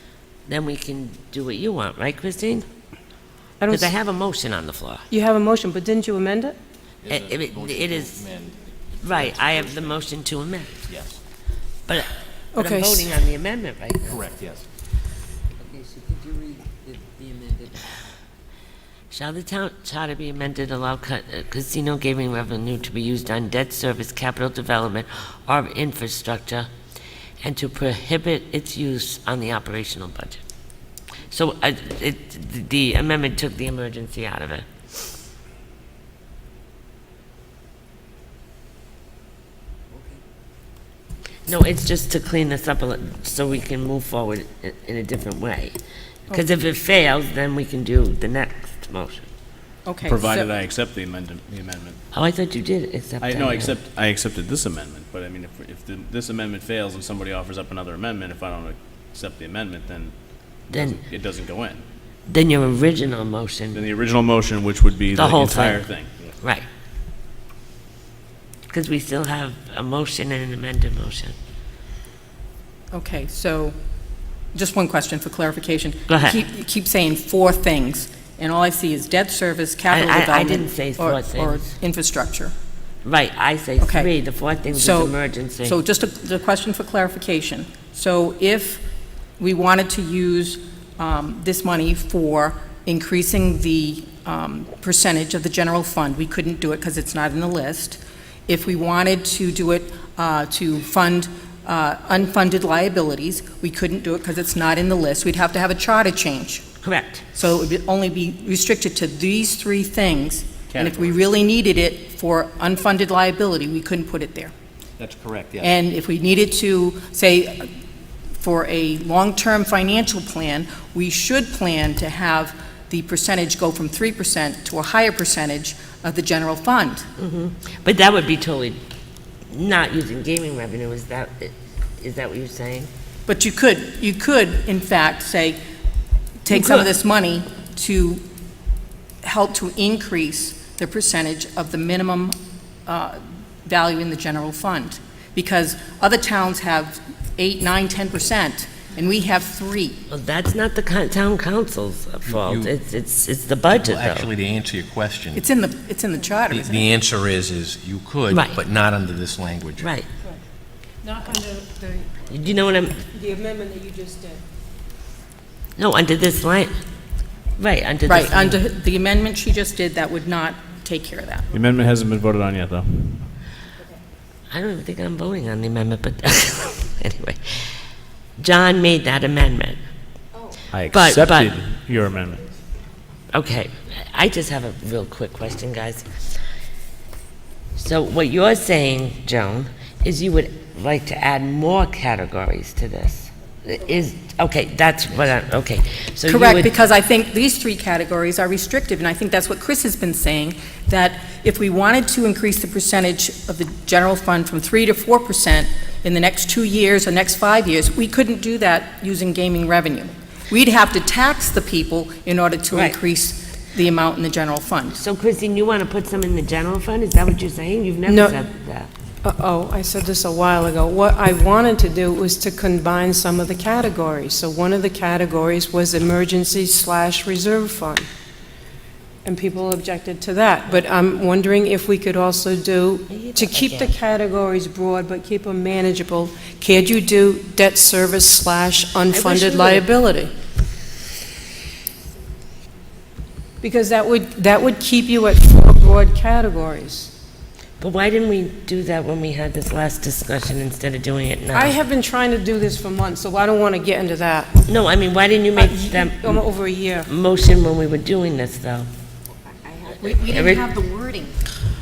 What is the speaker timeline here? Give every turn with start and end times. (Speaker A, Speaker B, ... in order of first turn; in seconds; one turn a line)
Speaker A: 0.5-2.6
Speaker B: 3.6-3.9
Speaker A: 3.7-5.0
Speaker B: 5.1-6.5
Speaker C: 7.0-10.1
Speaker A: 7.1-8.2
Speaker A: 9.0-10.8
Speaker C: 10.9-11.2
Speaker A: 11.9-14.2
Speaker B: 12.5-13.1
Speaker C: 14.0-14.6
Speaker D: 15.7-17.7
Speaker A: 19.1-26.7
Speaker A: 27.4-30.4
Speaker A: 31.3-34.6
Speaker A: 41.5-45.8
Speaker A: 46.3-49.2
Speaker E: 49.8-50.5
Speaker F: 50.0-52.0
Speaker A: 52.1-53.7
Speaker F: 53.2-60.1
Speaker A: 60.7-61.0
Speaker F: 60.7-61.8
Speaker A: 62.3-63.8
Speaker F: 63.7-66.1
Speaker A: 65.1-65.8
Speaker A: 68.7-71.3
Speaker E: 72.9-73.8
Speaker E: 74.5-82.5
Speaker A: 76.1-76.4
Speaker A: 79.9-81.7
Speaker A: 83.0-85.8
Speaker E: 83.8-84.1
Speaker E: 84.7-88.8
Speaker E: 89.4-106.6
Speaker A: 106.8-107.2
Speaker E: 107.3-114.5
Speaker F: 110.7-111.2
Speaker C: 115.0-115.8
Speaker E: 115.6-117.7
Speaker E: 118.4-127.0
Speaker A: 127.2-128.8
Speaker A: 129.5-132.9
Speaker E: 133.3-135.6
Speaker E: 136.4-138.2
Speaker A: 136.5-136.9
Speaker E: 139.2-150.0
Speaker A: 150.1-154.3
Speaker C: 152.2-152.7
Speaker C: 153.7-155.5
Speaker E: 155.3-156.8
Speaker C: 156.5-159.9
Speaker A: 158.3-158.6
Speaker A: 159.8-160.1
Speaker B: 161.0-162.1
Speaker A: 162.3-163.0
Speaker B: 163.1-164.4
Speaker A: 165.8-166.7
Speaker A: 167.6-168.6
Speaker E: 168.0-171.5
Speaker F: 171.5-173.3
Speaker A: 174.5-177.7
Speaker A: 178.4-179.8
Speaker F: 180.7-182.4
Speaker A: 180.9-181.7
Speaker A: 183.3-186.1
Speaker A: 187.8-196.7
Speaker E: 196.2-215.0
Speaker A: 212.7-213.0
Speaker A: 214.9-218.9
Speaker B: 218.1-218.4
Speaker B: 219.2-228.1
Speaker B: 229.2-240.3
Speaker A: 233.1-233.9
Speaker A: 239.1-239.9
Speaker B: 243.6-247.1
Speaker A: 247.8-251.7
Speaker B: 251.5-254.6
Speaker A: 254.7-256.4
Speaker B: 255.5-257.1
Speaker A: 257.1-258.9
Speaker E: 260.0-261.3
Speaker A: 260.1-260.7